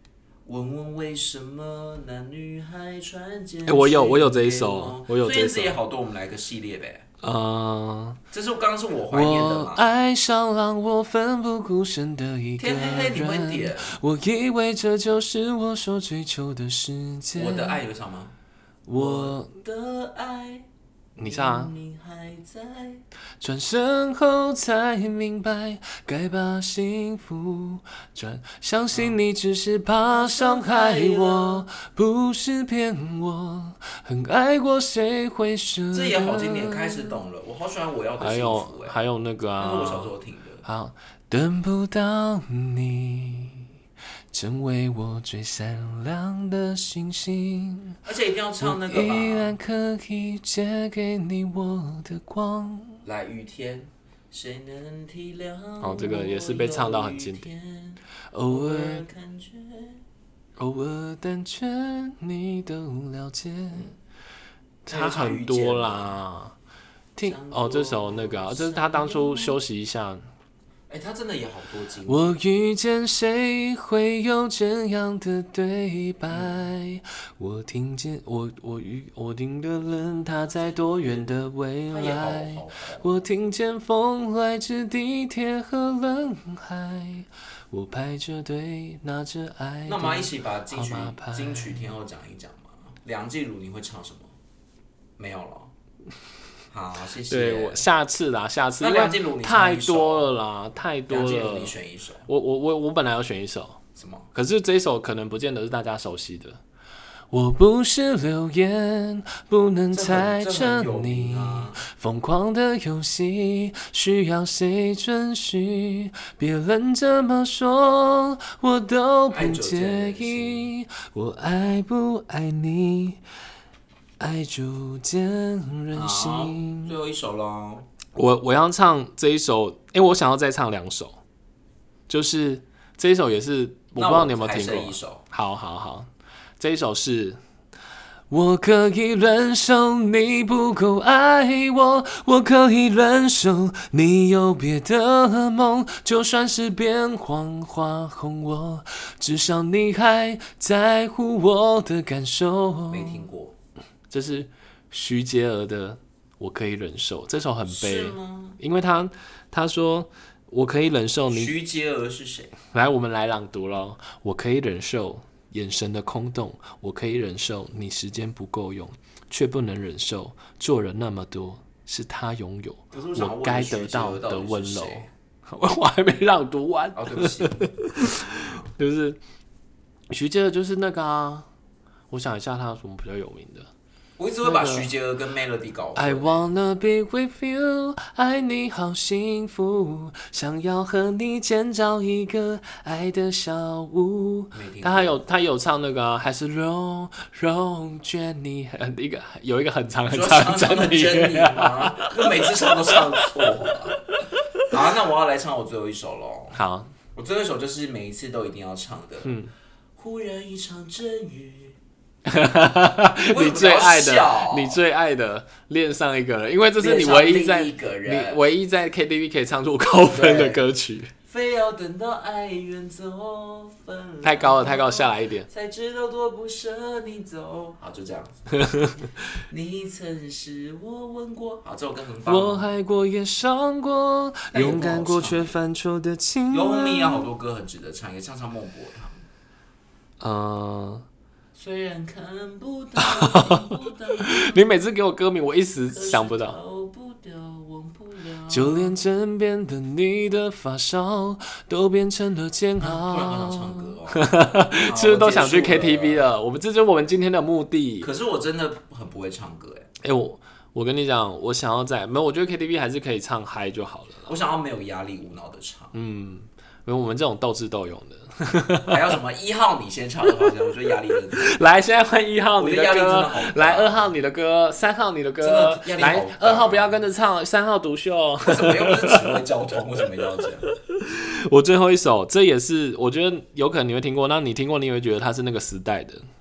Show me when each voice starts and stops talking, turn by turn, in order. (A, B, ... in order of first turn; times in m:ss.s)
0:00.4-0:07.0 A
0:03.6-0:05.8 B
0:07.2-0:08.2 B
0:08.3-0:09.9 A
0:09.1-0:17.8 B
0:12.6-0:14.0 A
0:17.4-0:18.3 A
0:18.9-0:19.5 B
0:18.9-0:23.0 A
0:21.2-0:21.7 B
0:23.4-0:37.2 B
0:28.9-0:29.2 A
0:30.0-0:31.6 A
0:35.9-0:39.0 A
0:38.2-0:40.1 B
0:39.6-0:40.6 A
0:40.6-0:43.7 B
0:44.3-0:48.0 B
0:48.0-0:49.6 A
0:48.6-0:53.0 B
0:53.0-1:00.0 A
0:55.8-0:57.5 B
0:58.3-0:59.0 B
1:00.6-1:03.9 B
1:04.8-1:06.5 B
1:04.9-1:06.2 A
1:07.2-1:10.2 B
1:07.2-1:09.6 A
1:10.9-1:12.3 A
1:12.0-1:31.8 B
1:16.3-1:16.6 A
1:20.5-1:21.3 A
1:21.9-1:23.1 A
1:29.8-1:34.3 A
1:35.2-1:35.7 A
1:36.7-1:37.8 A
1:37.3-1:41.7 B
1:38.8-1:40.3 A
1:41.1-1:42.3 A
1:42.3-1:43.8 B
1:44.0-1:44.3 A
1:44.3-1:46.6 B
1:47.3-2:03.2 B
1:49.9-1:51.8 A
1:59.3-2:00.7 A
2:04.2-2:06.9 B
2:05.9-2:07.9 A
2:08.1-2:11.2 B
2:12.1-2:17.4 B
2:14.0-2:15.2 A
2:18.3-2:33.2 B
2:32.9-2:33.6 A
2:34.1-2:41.5 B
2:37.6-2:38.6 A
2:41.3-2:42.6 A
2:42.7-2:59.2 B
2:52.9-2:55.1 A
2:57.0-2:58.7 A
3:00.1-3:01.5 B
3:02.1-3:03.7 B
3:04.2-3:06.5 A
3:04.4-3:04.9 B
3:05.9-3:24.7 B
3:14.5-3:15.2 A
3:20.1-3:24.0 A
3:24.6-3:26.6 A
3:26.5-3:26.9 B
3:27.1-3:29.3 A
3:29.2-3:29.5 B
3:30.0-3:31.8 A
3:32.2-3:41.1 B
3:33.1-3:34.8 A
3:36.8-3:38.4 A
3:40.1-3:40.6 A
3:41.2-3:48.9 A
3:44.2-3:45.5 B
3:48.6-3:49.1 B
3:49.5-3:52.7 A
3:52.2-3:57.3 B
3:54.5-3:55.5 A
3:56.5-3:59.3 A
4:00.2-4:01.0 B
4:01.5-4:04.7 A
4:03.0-4:06.6 B
4:05.9-4:09.0 A
4:08.5-4:18.1 B
4:12.8-4:16.3 A
4:18.0-4:19.9 A
4:20.0-4:24.3 B
4:24.2-4:25.9 A
4:25.9-4:29.2 B
4:28.8-4:31.6 A
4:31.3-4:39.4 B
4:32.6-4:34.1 A
4:35.4-4:37.0 A
4:38.4-4:40.7 A
4:40.7-4:46.2 B